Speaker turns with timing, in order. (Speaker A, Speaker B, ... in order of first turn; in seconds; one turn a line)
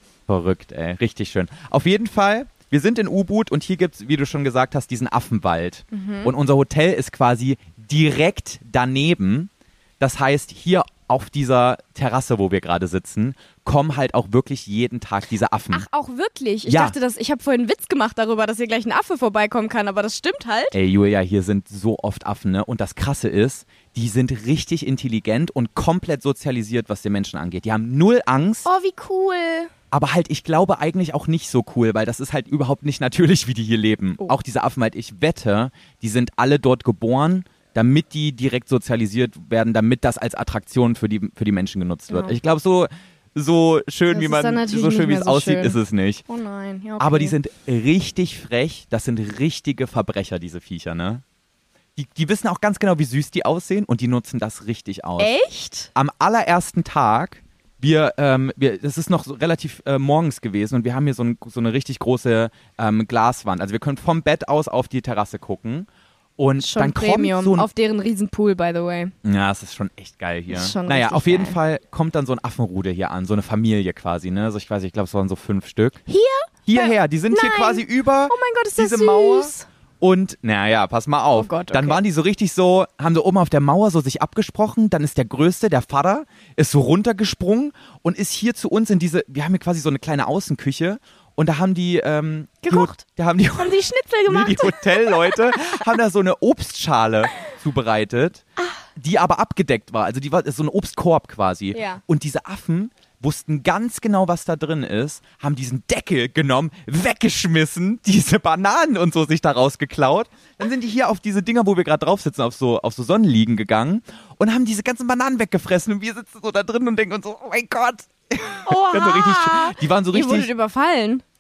Speaker A: 0.3-15.8
Speaker B: 5.9-6.3
Speaker B: 15.7-20.8
Speaker A: 16.7-17.0
Speaker A: 20.7-28.7
Speaker B: 28.6-29.7
Speaker A: 29.9-46.2
Speaker B: 42.1-42.4
Speaker B: 44.1-47.4
Speaker A: 47.0-51.2
Speaker A: 52.0-55.3
Speaker B: 55.2-55.9
Speaker A: 56.0-67.7
Speaker B: 66.6-69.1
Speaker A: 69.2-76.0
Speaker B: 70.5-71.6
Speaker B: 76.1-79.7
Speaker A: 76.7-98.4
Speaker B: 81.3-82.0
Speaker B: 92.6-93.0
Speaker B: 93.6-95.7
Speaker A: 99.0-120.5
Speaker B: 101.7-102.0
Speaker B: 118.7-121.2